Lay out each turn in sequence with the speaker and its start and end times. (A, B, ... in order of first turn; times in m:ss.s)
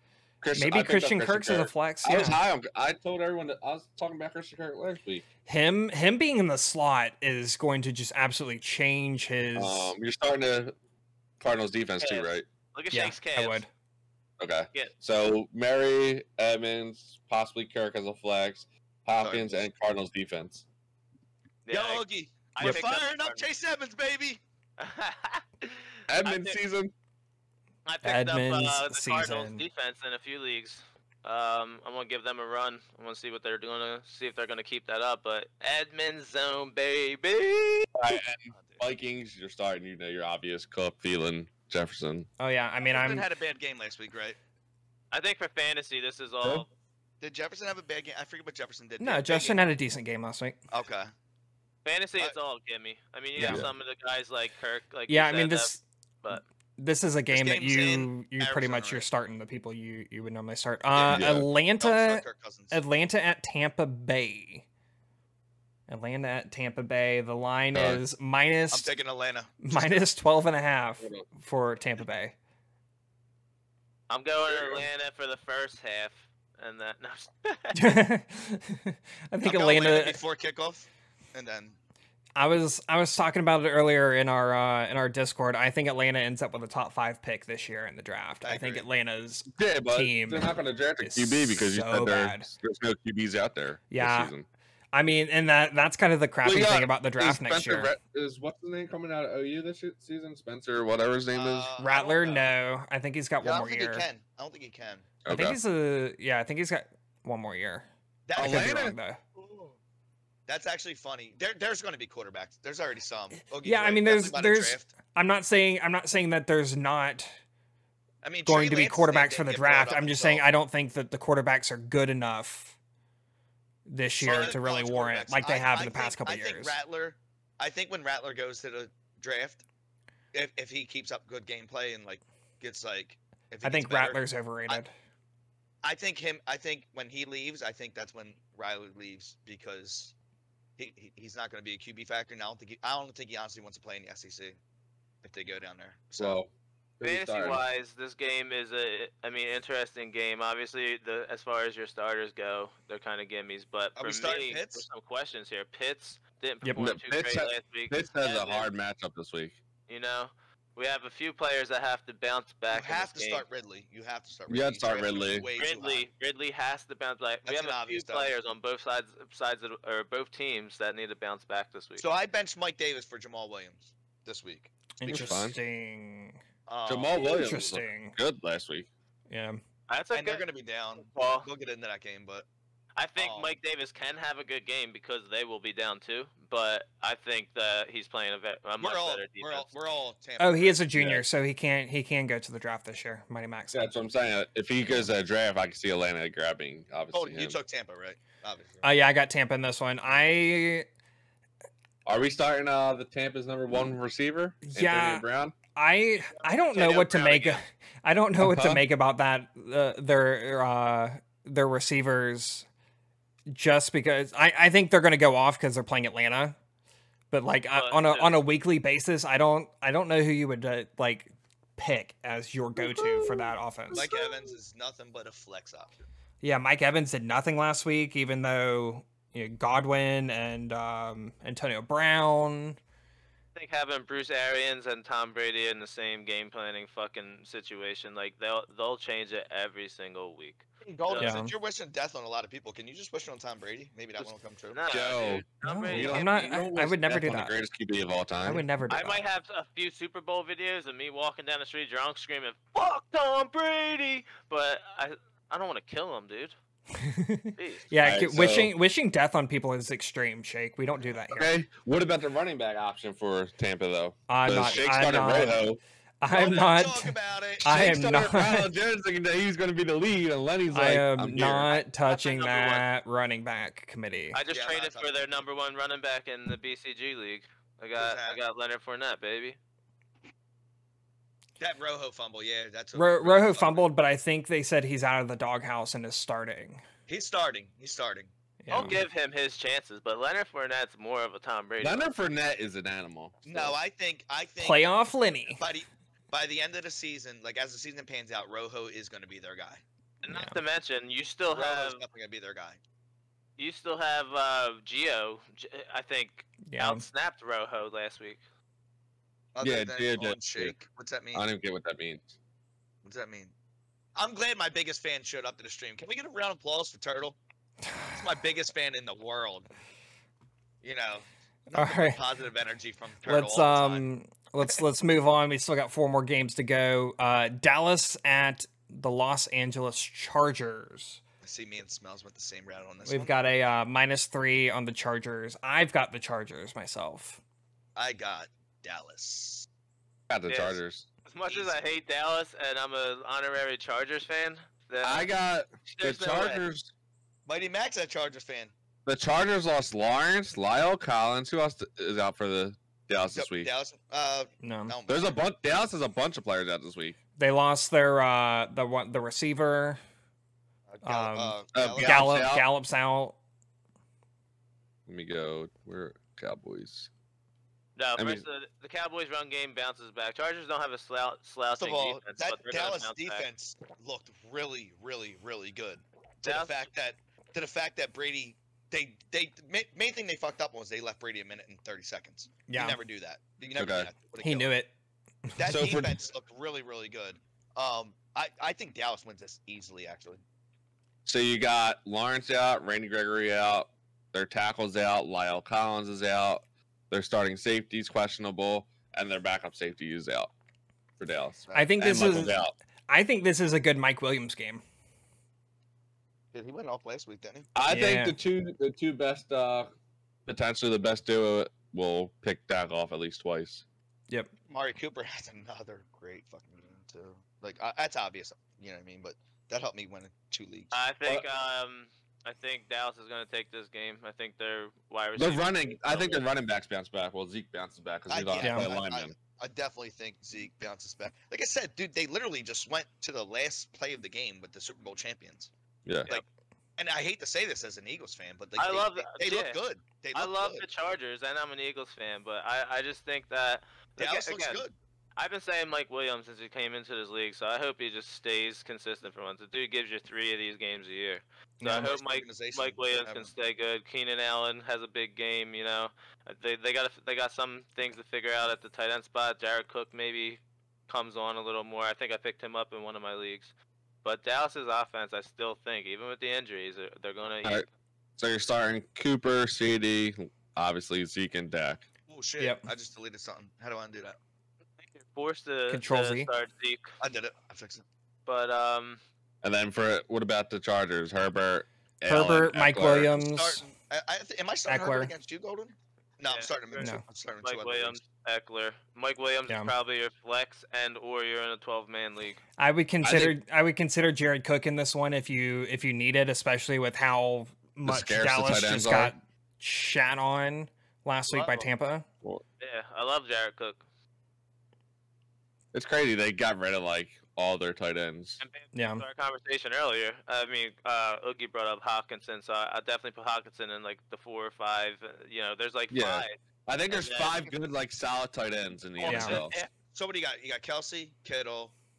0:00.4-0:05.2 A
0:00.5-0:02.4 B
0:05.5-0:09.9 B
0:09.6-0:10.7 A
0:11.4-0:12.4 A
0:12.0-0:13.6 C
0:12.9-0:13.7 B
0:14.4-0:20.6 A
0:19.2-0:19.6 D
0:21.6-0:23.5 C
0:21.7-0:24.4 D
0:24.8-0:26.6 C
0:26.1-0:26.9 A
0:27.8-0:37.9 C
0:28.0-0:29.6 B
0:37.9-0:42.3 A
0:38.5-0:38.8 D
0:42.4-0:43.2 B
0:42.8-0:44.4 D
0:45.1-0:46.7 C
0:47.2-0:49.6 D
0:49.0-0:50.6 B
0:50.7-0:51.1 D
0:51.8-0:55.7 C
0:53.4-0:53.7 A
0:55.1-0:55.8 B
0:56.8-1:04.6 B
0:57.3-0:59.0 D
1:00.9-1:02.8 D
1:01.1-1:01.5 A
1:05.9-1:08.9 B
1:07.7-1:08.0 A
1:08.7-1:10.0 D
1:09.6-1:12.3 B
1:11.0-1:11.2 A
1:14.1-1:17.8 C
1:17.7-1:20.2 B
1:19.4-1:21.8 D
1:22.4-1:32.5 B
1:28.4-1:28.9 D
1:29.5-1:34.4 A
1:33.9-1:34.3 B
1:34.9-1:37.9 B
1:36.4-1:41.7 A
1:41.3-1:42.5 D
1:41.8-1:44.0 B
1:43.4-1:45.1 D
1:45.2-1:45.6 A
1:45.3-1:49.2 B
1:48.3-1:49.8 D
1:48.3-1:48.9 A
1:50.5-1:54.9 D
1:53.6-1:57.3 B
1:58.2-2:00.4 D
1:58.4-2:02.7 B
2:03.9-2:06.7 B
2:04.2-2:09.6 D
2:10.3-2:14.8 D
2:13.6-2:14.9 B
2:15.8-2:20.1 D
2:20.8-2:24.6 D
2:25.2-2:26.4 D
2:26.2-2:27.6 A
2:27.0-2:38.7 C
2:34.0-2:34.8 D
2:36.8-2:39.6 A
2:39.9-2:43.4 C
2:42.7-2:46.1 D
2:44.5-2:45.5 A
2:45.6-2:52.0 C
2:47.4-2:48.3 D
2:52.0-2:54.7 D
2:55.0-2:56.4 B
2:55.0-2:55.6 A
2:56.7-2:57.3 D
2:56.8-2:58.9 A
2:57.2-2:58.2 B
2:59.3-2:59.6 B
2:59.9-3:00.4 C
3:00.1-3:02.4 D
3:01.0-3:01.5 C
3:03.0-3:09.7 C
3:03.2-3:03.6 D
3:08.8-3:10.8 D
3:10.4-3:13.9 B
3:11.0-3:11.2 A
3:13.7-3:17.6 A
3:17.1-3:18.9 D
3:18.8-3:20.8 B
3:22.0-3:25.5 A
3:24.6-3:32.7 B
3:26.7-3:27.6 C
3:28.4-3:28.8 A
3:33.5-3:36.6 B
3:37.3-3:44.0 B
3:37.7-3:38.4 C
3:42.8-3:44.3 A
3:43.9-3:46.0 D
3:46.4-3:52.8 B
3:53.5-4:01.4 C
4:00.8-4:04.8 D
4:01.2-4:01.5 B
4:04.2-4:06.3 C
4:04.9-4:08.6 A
4:05.6-4:07.6 B
4:08.4-4:09.2 B
4:08.9-4:16.5 C
4:16.9-4:21.5 B
4:17.6-4:17.9 C
4:18.0-4:18.7 A
4:21.3-4:25.8 A
4:24.3-4:25.6 B
4:26.2-4:28.7 B
4:26.3-4:27.9 D
4:27.6-4:31.7 A
4:30.7-4:34.4 B
4:31.7-4:32.8 C
4:34.3-4:39.6 C
4:34.5-4:35.4 D
4:38.0-4:38.4 D
4:41.6-4:43.9 D
4:42.9-4:46.8 B
4:47.1-4:48.3 D
4:48.6-4:49.0 B
4:48.7-4:52.1 C
4:51.8-4:53.8 A
4:53.4-4:54.9 D
4:54.6-4:55.6 B
4:55.5-4:59.8 D
5:00.2-5:02.0 C
5:00.3-5:00.6 B
5:01.5-5:02.8 D
5:03.6-5:08.4 C
5:06.6-5:07.0 B
5:09.5-5:11.4 D
5:09.6-5:10.7 A
5:11.3-5:12.4 A
5:13.0-5:13.5 D
5:14.2-5:17.4 D
5:18.1-5:19.7 D
5:20.8-5:24.0 D
5:21.7-5:22.2 B
5:23.2-5:31.2 B
5:31.4-5:33.3 D
5:33.0-5:37.4 B
5:38.0-5:39.7 D
5:40.3-5:41.0 A
5:40.5-5:45.3 C
5:41.5-5:41.9 D
5:45.0-5:46.9 A
5:45.9-5:46.6 C
5:47.4-5:48.7 D
5:49.0-5:53.7 A
5:53.3-5:55.4 D
5:54.6-5:54.9 B
5:55.1-5:57.2 A
5:57.4-6:00.0 B
6:00.9-6:02.2 D
6:01.0-6:03.4 B
6:01.7-6:02.6 A
6:05.1-6:07.1 A
6:08.0-6:13.5 C
6:08.2-6:08.4 A
6:11.8-6:24.7 D
6:16.4-6:16.9 C
6:22.7-6:23.0 B
6:23.7-6:24.1 A
6:24.4-6:24.9 B
6:25.6-6:30.4 D
6:25.6-6:26.2 A
6:31.2-6:40.5 A
6:41.2-6:42.7 A
6:41.6-6:42.4 D
6:41.7-6:44.8 B
6:46.5-6:47.7 D
6:47.7-6:49.9 A
6:47.9-6:48.4 B
6:50.4-6:53.8 A
6:54.7-7:01.0 D
7:00.9-7:06.4 C
7:05.4-7:09.3 A
7:08.3-7:15.7 D
7:08.6-7:08.9 B
7:16.0-7:16.3 A
7:17.0-7:20.8 D
7:18.8-7:19.8 C
7:20.3-7:24.8 C
7:24.2-7:24.9 D
7:25.4-7:43.7 C
7:31.8-7:32.1 B
7:31.8-7:33.5 D
7:44.2-7:47.9 C
7:48.4-7:52.0 A
7:52.3-7:54.4 D
7:52.6-7:52.9 B
7:55.0-7:57.1 C
7:55.9-7:56.5 B
7:57.2-7:58.0 D
7:58.4-7:59.2 C
7:59.6-8:03.3 A
8:02.3-8:03.8 B
8:03.0-8:08.2 D
8:04.9-8:05.3 B
8:06.4-8:12.6 C
8:07.0-8:07.2 B
8:12.8-8:22.2 B
8:13.2-8:13.5 A
8:18.0-8:19.3 A
8:21.5-8:21.9 C
8:22.8-8:24.0 C
8:25.9-8:28.6 A
8:28.6-8:36.5 C
8:28.9-8:29.2 B
8:36.1-8:39.7 A
8:37.1-8:37.7 C
8:39.2-8:39.9 C
8:39.3-8:39.6 B
8:39.6-8:41.9 D